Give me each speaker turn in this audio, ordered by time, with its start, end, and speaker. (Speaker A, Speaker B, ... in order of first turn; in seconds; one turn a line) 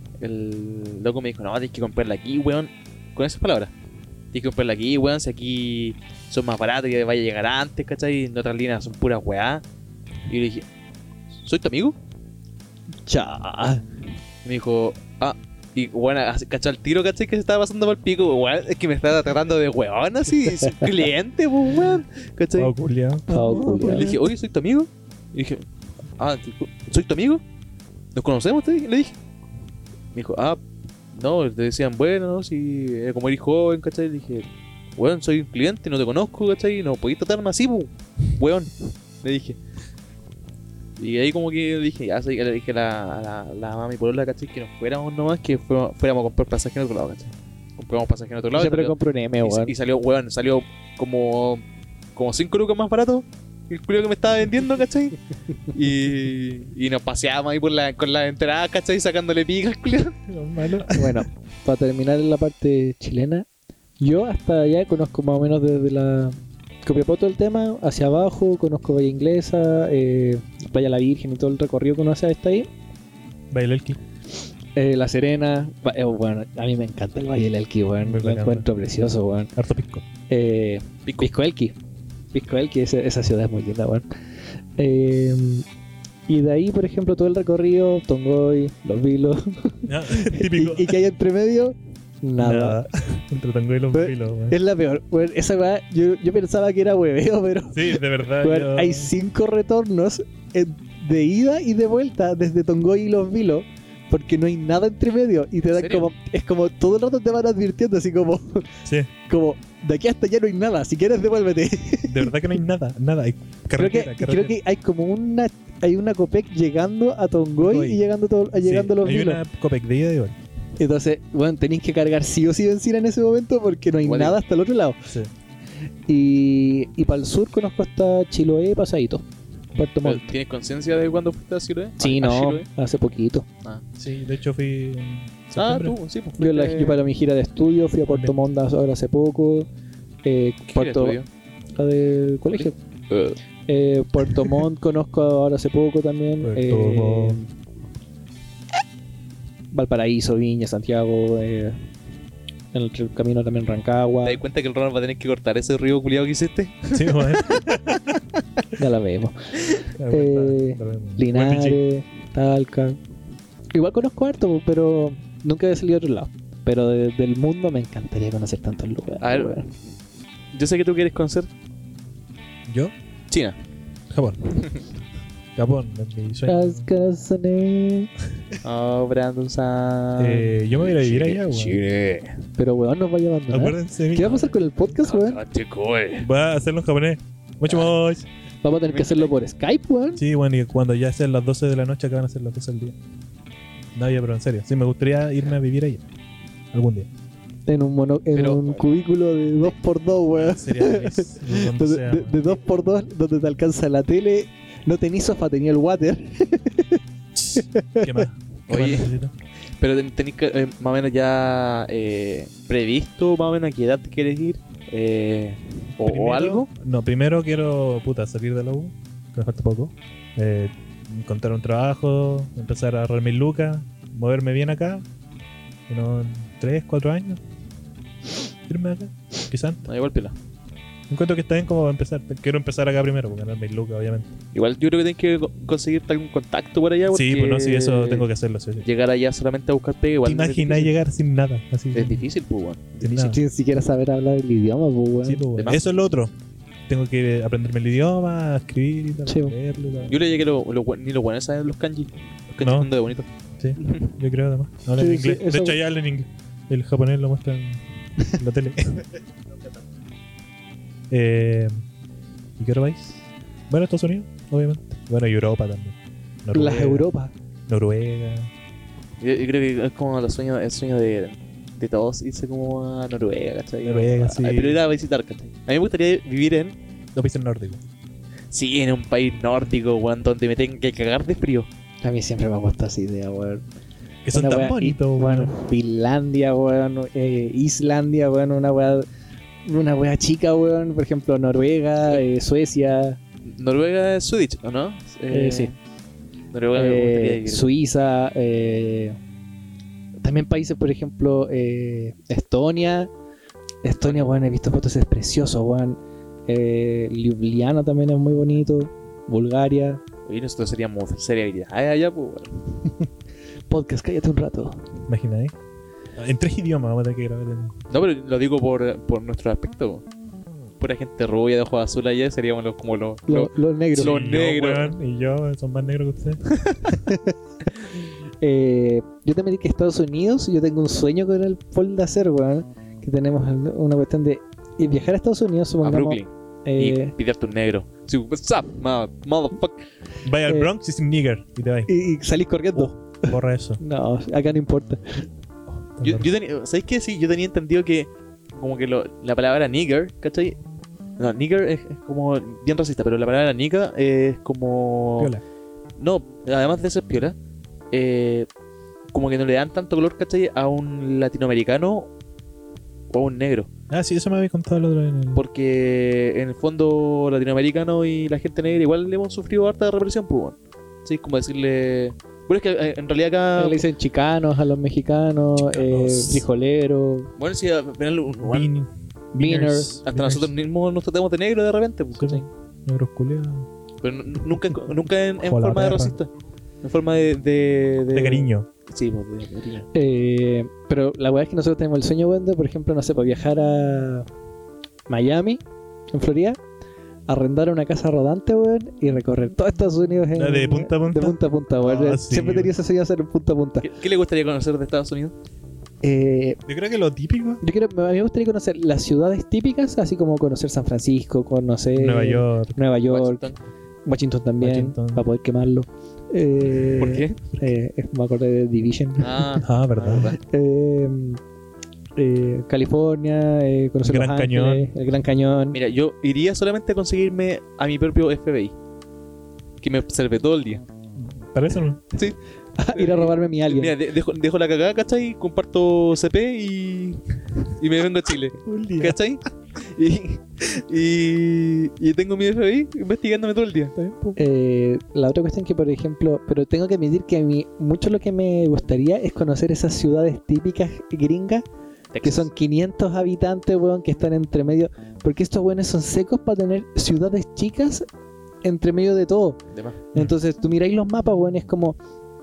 Speaker A: 0.2-3.7
Speaker A: 4.3-9.6
Speaker A: 10.3-10.7
Speaker A: 11.4-12.0
Speaker B: 13.1-13.8
Speaker A: 14.4-22.7
Speaker C: 22.6-24.1
Speaker B: 23.3-24.2
Speaker A: 23.5-25.6
Speaker A: 26.2-27.4
Speaker A: 28.1-29.2
Speaker A: 30.1-30.6
Speaker A: 31.1-39.6
Speaker A: 41.0-51.6
Speaker B: 48.5-49.7
Speaker A: 52.2-55.2
Speaker A: 55.7-60.2
Speaker C: 60.3-61.3
Speaker B: 60.9-63.5
Speaker B: 64.0-72.7
Speaker C: 73.5-74.0
Speaker B: 74.8-79.5
Speaker C: 78.0-78.7
Speaker C: 79.6-80.0
Speaker B: 80.3-81.8
Speaker B: 82.3-84.1
Speaker B: 84.8-85.7
Speaker B: 86.3-92.9
Speaker C: 89.9-91.0
Speaker C: 92.4-94.6
Speaker B: 93.9-108.7
Speaker C: 97.7-99.1
Speaker A: 105.7-106.1
Speaker C: 108.8-109.1
Speaker B: 109.3-112.4
Speaker C: 112.1-114.6
Speaker B: 113.8-119.4
Speaker C: 117.6-120.4
Speaker B: 120.8-125.0
Speaker A: 124.0-124.4
Speaker B: 126.1-130.3
Speaker A: 130.0-132.7
Speaker B: 132.0-133.5
Speaker C: 134.0-136.0
Speaker A: 135.6-137.0
Speaker B: 136.4-139.7
Speaker C: 138.1-138.3
Speaker B: 140.2-141.2
Speaker A: 140.7-141.3
Speaker B: 141.8-142.8
Speaker A: 142.5-143.4
Speaker B: 143.7-147.5
Speaker C: 146.4-147.4
Speaker B: 149.7-151.8
Speaker B: 152.7-154.4
Speaker A: 154.2-157.7
Speaker C: 156.9-158.2
Speaker B: 158.8-159.5
Speaker C: 160.0-161.8
Speaker B: 160.1-163.0
Speaker B: 163.7-169.7
Speaker A: 169.2-169.7
Speaker A: 170.5-171.5
Speaker C: 172.7-172.9
Speaker A: 173.3-173.6
Speaker C: 174.1-174.6
Speaker C: 175.6-176.9
Speaker B: 176.5-178.1
Speaker A: 178.6-182.4
Speaker C: 180.2-181.8
Speaker B: 182.6-185.4
Speaker C: 183.5-184.4
Speaker A: 184.2-186.3
Speaker C: 186.2-188.3
Speaker A: 187.7-187.9
Speaker B: 188.6-190.2
Speaker A: 188.9-189.3
Speaker C: 190.2-193.0
Speaker C: 193.9-196.1
Speaker C: 196.7-197.1
Speaker B: 197.7-207.0
Speaker A: 198.3-198.8
Speaker C: 200.3-202.6
Speaker C: 207.3-209.3
Speaker B: 207.6-208.3
Speaker A: 208.7-209.1
Speaker A: 209.8-216.7
Speaker C: 216.0-225.1
Speaker C: 225.9-227.4
Speaker C: 228.7-229.8
Speaker A: 229.8-230.3
Speaker C: 231.1-234.3
Speaker A: 234.5-238.3
Speaker C: 237.1-238.9
Speaker A: 238.8-240.9
Speaker C: 240.2-242.3
Speaker A: 241.9-243.4
Speaker C: 243.0-243.4
Speaker B: 243.2-245.4
Speaker C: 245.2-246.3
Speaker A: 245.6-245.8
Speaker C: 246.9-250.2
Speaker B: 249.3-249.6
Speaker A: 250.1-254.1
Speaker C: 252.6-252.9
Speaker C: 253.6-259.1
Speaker B: 255.0-255.8
Speaker C: 261.1-261.8
Speaker C: 262.6-267.1
Speaker B: 266.5-267.3
Speaker C: 267.7-268.5
Speaker A: 269.2-276.8
Speaker C: 273.8-274.8
Speaker C: 277.1-277.8
Speaker A: 278.5-281.7
Speaker B: 282.0-283.6
Speaker C: 284.2-285.6
Speaker B: 284.3-289.1
Speaker B: 289.6-293.2
Speaker A: 293.5-295.8
Speaker B: 295.3-295.7
Speaker A: 296.5-297.7
Speaker B: 296.7-299.2
Speaker B: 300.2-303.1
Speaker B: 303.8-310.0
Speaker A: 304.0-304.3
Speaker A: 310.3-312.6
Speaker B: 313.7-314.8
Speaker C: 315.1-315.6
Speaker C: 316.2-317.7
Speaker A: 317.9-320.1
Speaker A: 320.8-325.0
Speaker B: 323.3-324.1
Speaker C: 324.0-326.4
Speaker B: 326.9-327.4
Speaker B: 328.4-337.1
Speaker A: 335.8-339.8
Speaker C: 340.2-341.9
Speaker B: 340.4-340.7
Speaker B: 341.9-345.3
Speaker C: 342.7-343.8
Speaker C: 345.9-346.3
Speaker A: 346.0-350.6
Speaker A: 351.2-355.4
Speaker A: 356.0-357.4
Speaker A: 357.9-358.5
Speaker A: 359.1-362.1
Speaker A: 363.1-363.7
Speaker C: 363.9-365.4
Speaker A: 365.4-373.8
Speaker B: 373.6-377.3
Speaker C: 375.6-376.4
Speaker A: 377.4-378.7
Speaker C: 378.4-380.5
Speaker B: 379.4-379.9
Speaker A: 380.0-382.5
Speaker C: 382.1-383.7
Speaker A: 384.0-386.3
Speaker C: 385.4-386.1
Speaker A: 386.8-389.9
Speaker C: 388.1-388.7
Speaker B: 389.9-394.3
Speaker B: 395.1-396.6
Speaker B: 397.3-403.9
Speaker C: 400.4-402.7
Speaker A: 403.8-405.3
Speaker B: 406.0-406.6
Speaker C: 406.7-407.6
Speaker B: 407.6-413.4
Speaker C: 411.9-412.8
Speaker A: 413.1-413.6
Speaker B: 414.1-419.6
Speaker C: 414.6-415.2
Speaker A: 417.0-417.4
Speaker A: 419.2-420.4
Speaker C: 419.6-420.3
Speaker B: 420.3-421.4
Speaker B: 422.2-425.8
Speaker C: 424.0-424.9
Speaker A: 425.7-428.7
Speaker A: 429.8-430.8
Speaker C: 431.2-432.0
Speaker B: 432.8-433.9
Speaker A: 432.9-443.9
Speaker C: 438.6-439.2
Speaker C: 444.0-444.4
Speaker B: 444.4-451.6
Speaker A: 452.1-452.5
Speaker B: 452.2-458.1
Speaker B: 458.6-459.6
Speaker A: 459.7-460.0
Speaker B: 460.1-462.0